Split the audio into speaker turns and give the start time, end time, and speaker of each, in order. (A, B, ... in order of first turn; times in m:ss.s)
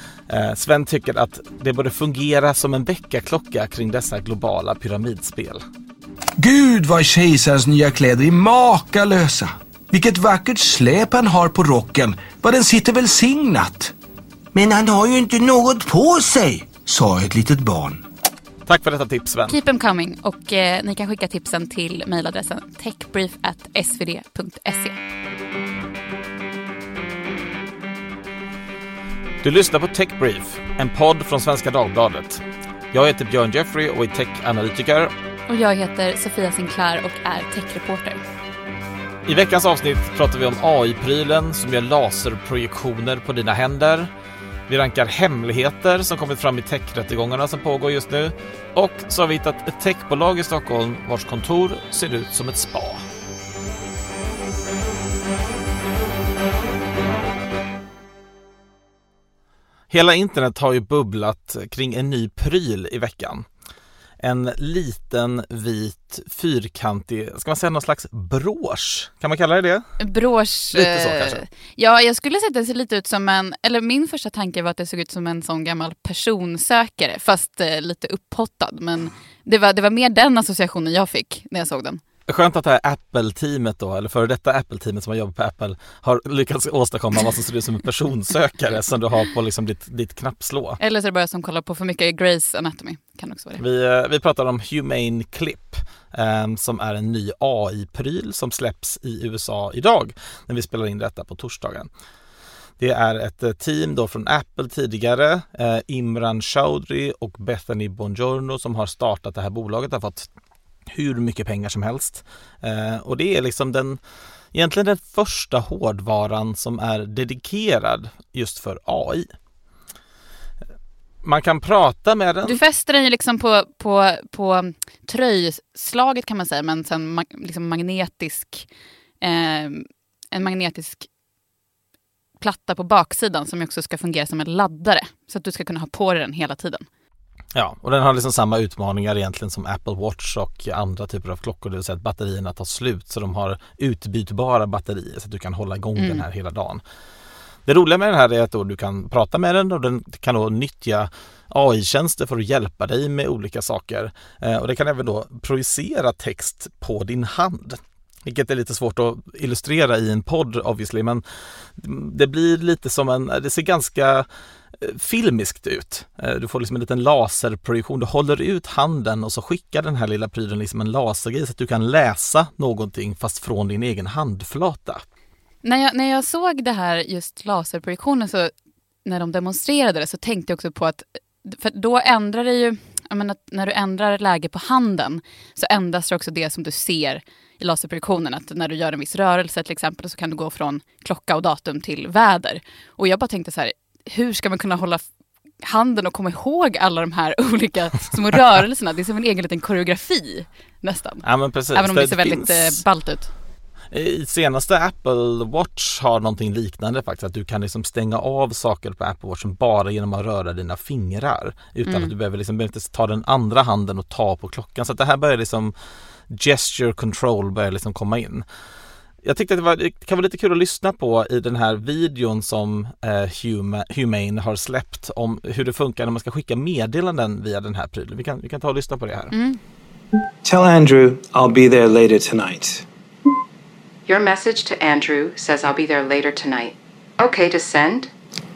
0:00.3-0:05.6 A
0:06.4-0:13.9 B
0:14.5-0:18.0 B
0:18.7-0:19.6 A
0:19.5-0:25.0 C
0:29.4-0:35.1 A
0:35.5-0:38.2 C
0:39.3-0:44.1 A
0:44.7-0:53.1 A
0:59.9-1:03.5 A
1:04.2-1:09.9 A
1:10.0-1:22.0 C
1:10.7-1:11.4 A
1:22.3-1:30.8 A
1:30.8-1:33.6 C
1:33.6-1:41.9 A
1:42.8-1:50.3 A
1:50.9-1:54.0 A
1:54.5-1:59.3 A
2:01.2-2:02.6 A
2:02.4-2:08.7 C
2:09.2-2:11.1 C
2:12.4-2:16.8 C
2:17.5-2:26.8 A
2:26.0-2:26.2 C
2:27.7-2:41.2 A
2:41.8-2:55.0 A
2:55.6-2:58.5 C
2:59.0-3:15.0 C
3:15.6-3:23.3 C
3:21.2-3:22.8 A
3:23.9-3:35.7 A
3:31.8-3:32.1 C
3:36.3-3:38.4 A
3:39.2-3:49.3 A
3:49.3-3:49.6 C
3:50.4-3:52.8 D
3:54.1-3:58.1 E